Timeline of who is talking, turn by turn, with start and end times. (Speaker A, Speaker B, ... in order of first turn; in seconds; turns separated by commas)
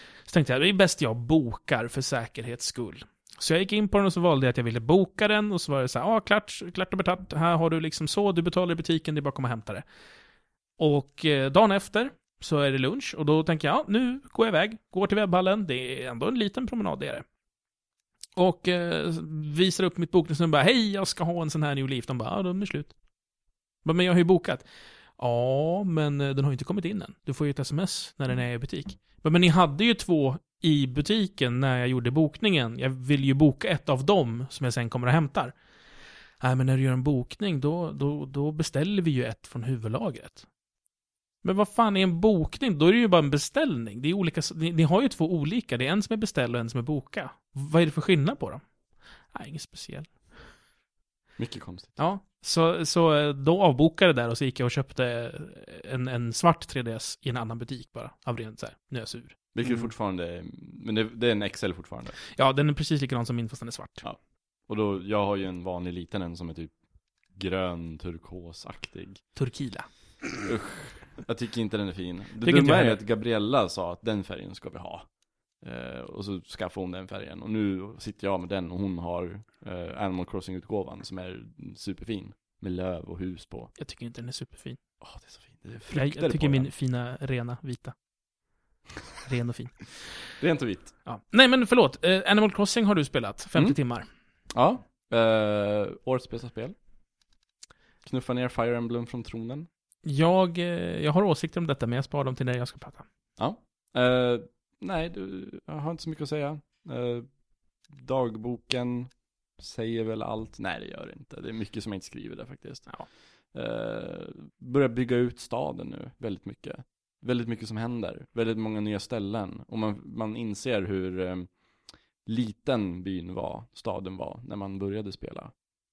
Speaker A: 0.2-9.8, Speaker A: 10.8-17.2, Speaker A: 18.4-23.0, Speaker A: 23.8-24.6, Speaker A: 25.2-35.5, Speaker A: 36.4-40.5, Speaker A: 41.4-48.6, Speaker A: 49.3-50.5, Speaker B: 51.4-52.0, Speaker A: 52.0-59.4, Speaker B: 59.5-62.2, Speaker A: 62.4-64.0, Speaker B: 64.0-69.2, Speaker A: 69.3-69.9, Speaker B: 70.4-75.1, Speaker A: 72.4-73.0, Speaker B: 75.6-83.7, Speaker A: 83.8-84.8, Speaker B: 85.0-86.7, Speaker A: 85.9-87.9, Speaker A: 89.2-90.0, Speaker B: 90.4-90.9, Speaker A: 91.0-94.0, Speaker B: 94.5-96.7, Speaker B: 98.0-99.7, Speaker A: 100.0-103.1, Speaker B: 103.4-121.6, Speaker B: 122.2-125.5